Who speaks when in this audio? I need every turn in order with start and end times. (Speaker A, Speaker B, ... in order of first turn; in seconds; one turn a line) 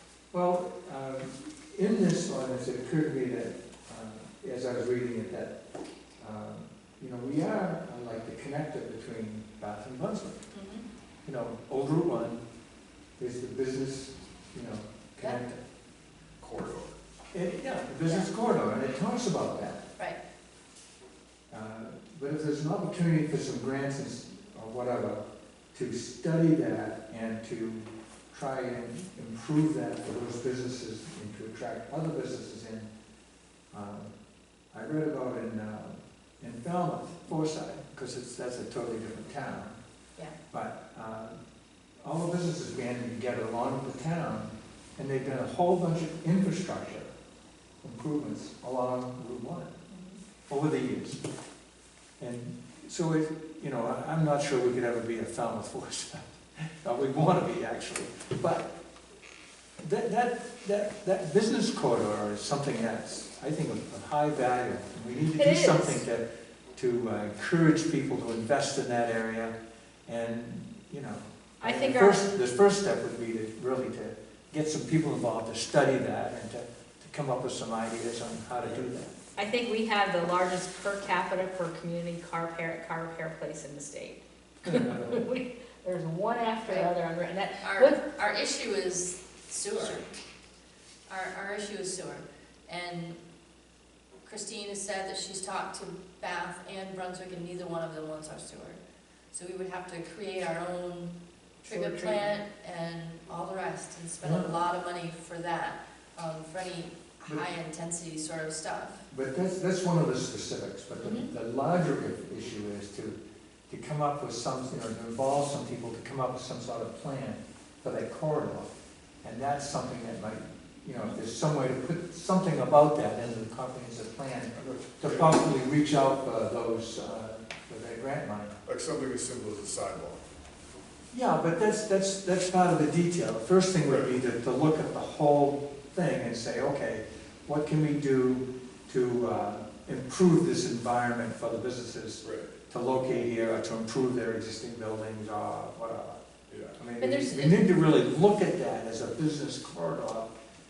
Speaker A: 0.3-5.5
Speaker A: 6.2-10.5
Speaker B: 10.5-10.8
Speaker A: 11.2-12.4
Speaker A: 13.2-15.6
Speaker C: 16.4-16.9
Speaker A: 17.3-19.8
Speaker A: 21.5-32.9
Speaker A: 33.7-34.1
Speaker A: 34.7-39.8
Speaker A: 40.5-41.4
Speaker A: 42.0-47.1
Speaker A: 47.8-49.8
Speaker B: 49.9-50.2
Speaker A: 50.5-51.2
Speaker A: 52.2-58.7
Speaker A: 59.8-66.2
Speaker D: 65.3-66.0
Speaker A: 66.8-69.5
Speaker A: 70.1-79.2
Speaker D: 71.6-72.3
Speaker D: 79.3-88.0
Speaker A: 84.6-85.3
Speaker B: 86.6-86.9
Speaker B: 87.6-90.0
Speaker B: 91.1-93.2
Speaker B: 94.2-98.8
Speaker B: 99.3-109.0
Speaker D: 101.7-102.3
Speaker A: 104.2-104.5
Speaker A: 109.1-128.6
Speaker B: 111.0-111.3
Speaker C: 124.5-125.4
Speaker C: 128.6-130.2
Speaker A: 131.1-146.2
Speaker C: 133.8-134.2
Speaker C: 142.2-142.5
Speaker C: 146.5-146.8
Speaker A: 146.8-150.3
Speaker D: 147.0-147.6